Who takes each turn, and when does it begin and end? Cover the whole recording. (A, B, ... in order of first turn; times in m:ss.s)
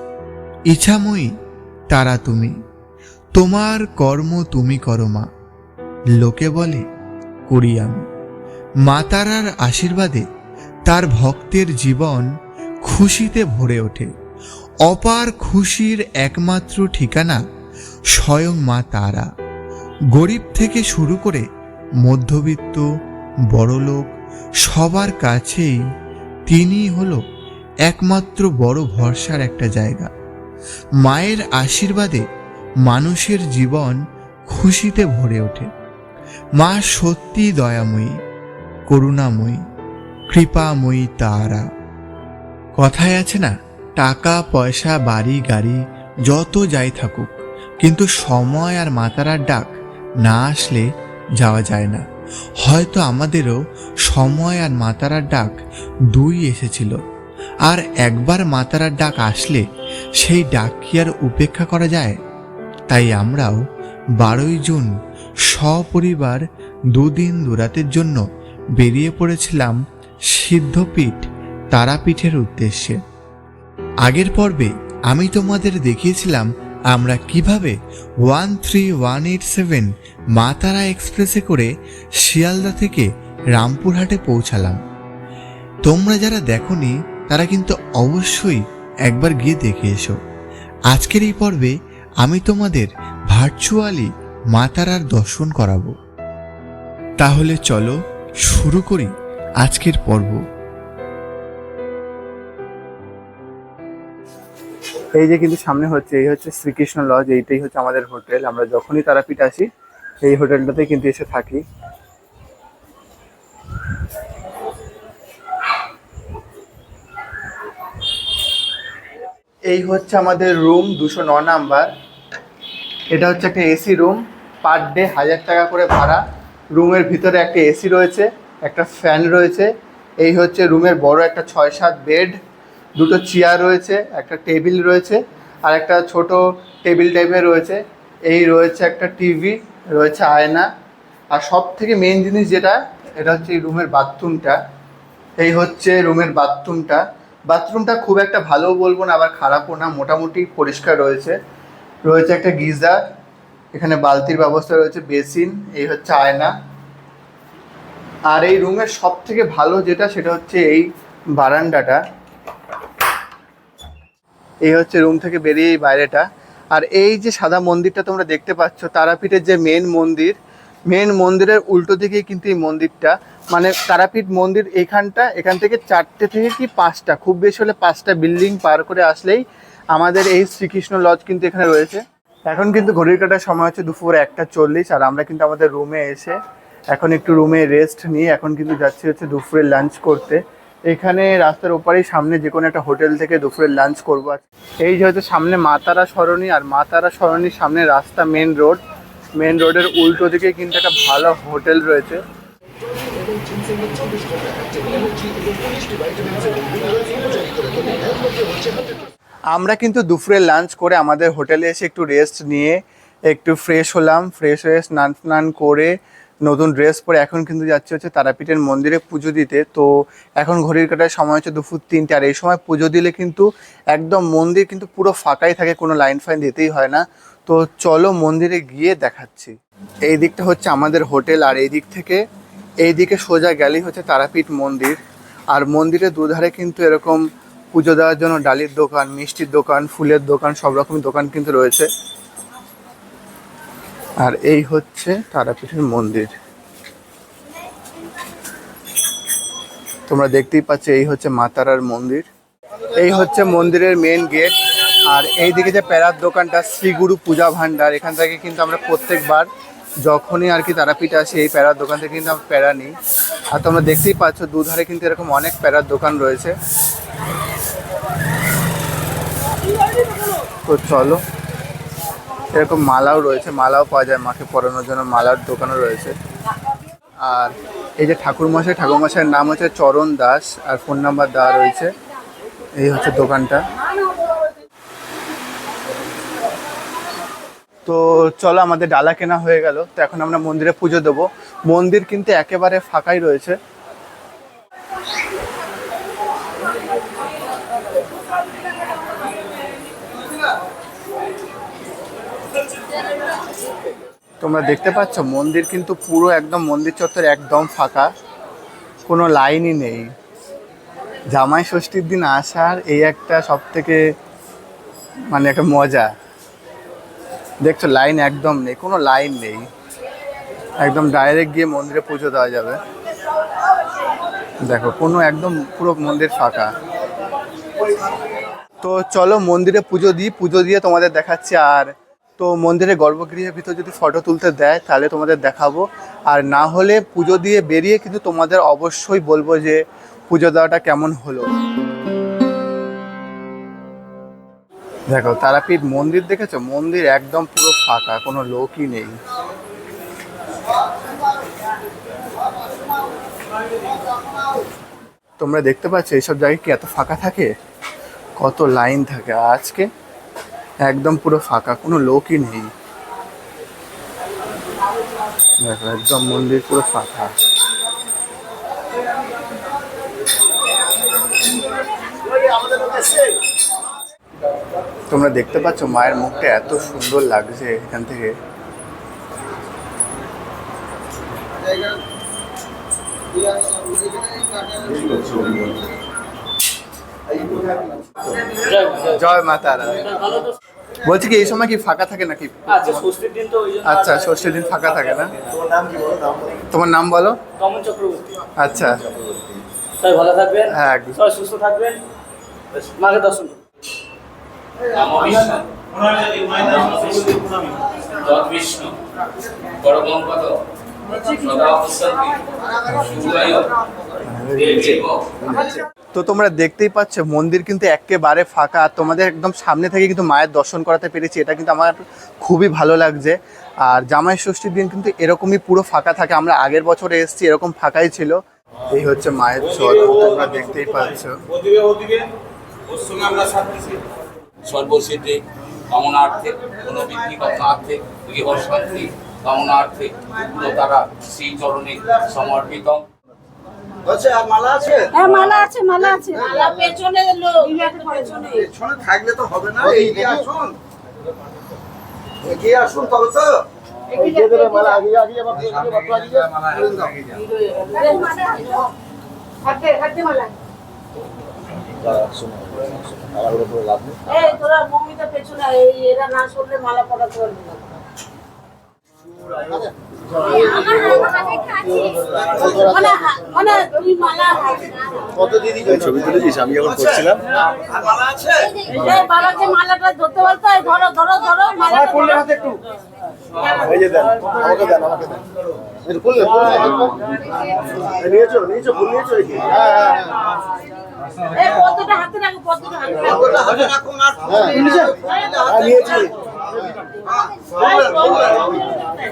0:00.7-0:01.3 A
0:01.9-0:02.5 A
0:03.4-0:05.3 A
0:06.2-0:06.8 A
0:07.5-0:08.0 A
0:08.8-0:10.3 A
0:10.9-0:12.3 A
0:12.8-0:14.1 A
0:14.9-0:17.4 A
0:18.2-0:19.3 A
0:20.1-0:21.4 A
0:22.0-0:22.8 A
0:23.5-0:25.8 A
0:26.5-0:27.2 A
0:27.9-0:30.1 A
0:31.0-0:32.3 A
0:32.8-0:35.7 A
0:36.6-0:38.2 A
0:38.9-0:39.6 A
0:40.3-0:41.6 A
0:42.8-0:50.9 A
0:51.4-0:52.0 A
0:52.6-0:53.6 A
0:54.1-0:55.6 A
0:56.1-0:57.0 A
0:57.7-0:59.6 A
1:00.2-1:02.2 A
1:02.9-1:03.6 A
1:04.2-1:04.9 A
1:05.5-1:06.4 A
1:06.9-1:08.2 A
1:08.8-1:09.8 A
1:10.3-1:13.0 A
1:14.0-1:21.7 A
1:22.2-1:24.8 A
1:25.8-1:30.2 A
1:30.9-1:35.9 A
1:37.2-1:40.4 A
1:45.2-1:49.7 B
1:50.2-1:51.6 B
1:59.7-2:01.9 B
2:03.1-2:06.2 B
2:06.7-2:09.7 B
2:10.2-2:12.4 B
2:13.0-2:20.7 B
2:21.3-2:24.6 B
2:25.4-2:31.4 B
2:32.0-2:33.0 B
2:33.7-2:36.5 B
2:38.3-2:40.9 B
2:41.4-2:42.0 B
2:44.7-2:50.4 B
2:50.9-2:59.4 B
2:59.9-3:06.4 B
3:06.9-3:18.8 B
3:19.4-3:22.2 B
3:29.5-3:32.8 B
3:33.3-3:35.9 B
3:36.5-3:39.9 B
3:40.4-3:49.6 B
3:50.1-3:52.2 B
3:52.8-3:55.0 B
3:55.5-3:57.2 B
3:57.7-4:01.9 B
4:04.2-4:06.3 B
4:10.1-4:12.3 B
4:13.0-4:19.5 B
4:20.0-4:23.0 B
4:23.5-4:26.6 B
4:30.7-4:31.2 B
4:32.5-4:36.2 B
4:37.2-4:41.9 B
4:42.8-4:43.6 B
4:47.9-4:53.6 B
5:04.4-5:08.1 B
5:09.1-5:10.1 B
5:11.3-5:14.0 B
5:15.3-5:16.1 B
5:17.6-5:19.7 B
5:20.8-5:22.8 B
5:24.6-5:26.7 B
5:28.8-5:41.6 B
5:45.1-5:49.2 B
5:55.4-5:57.5 B
5:58.4-5:59.9 B
6:00.8-6:02.7 B
6:05.6-6:07.3 B
6:15.1-6:18.4 B
6:25.1-6:25.4 C
6:28.6-6:29.1 D
6:28.9-6:30.4 B
6:31.0-6:33.1 B
6:32.9-6:34.0 D
6:33.7-6:35.4 B
6:36.0-6:36.4 C
6:36.6-6:37.4 B
6:37.6-6:38.4 D
6:38.6-6:39.0 B
6:40.0-6:40.7 D
6:40.7-6:41.2 B
6:41.2-6:42.0 D
6:42.8-6:43.6 D
6:44.9-6:53.7 E
6:52.9-6:53.2 B
6:54.3-7:08.4 B
6:54.6-6:55.3 E
7:08.9-7:11.4 B
7:13.1-7:13.4 F
7:14.6-7:23.1 E
7:24.0-7:25.3 F
7:25.1-7:28.7 G
7:26.4-7:26.8 F
7:28.5-7:30.8 F
7:32.4-7:33.6 F
7:34.1-7:35.2 G
7:34.4-7:36.5 C
7:36.6-7:37.2 F
7:37.3-7:38.9 G
7:39.6-7:40.6 G
7:42.0-7:44.2 C
7:44.3-7:47.9 G
7:50.3-7:55.7 G
7:52.3-7:52.7 F
7:55.5-7:57.3 C
7:56.7-7:58.8 F
7:58.8-8:02.7 G
8:03.6-8:04.2 G
8:03.9-8:05.4 C
8:06.0-8:07.1 C
8:08.1-8:10.2 C
8:11.4-8:13.6 G
8:13.2-8:16.5 F
8:15.5-8:16.3 G
8:17.1-8:18.8 F
8:17.8-8:19.1 G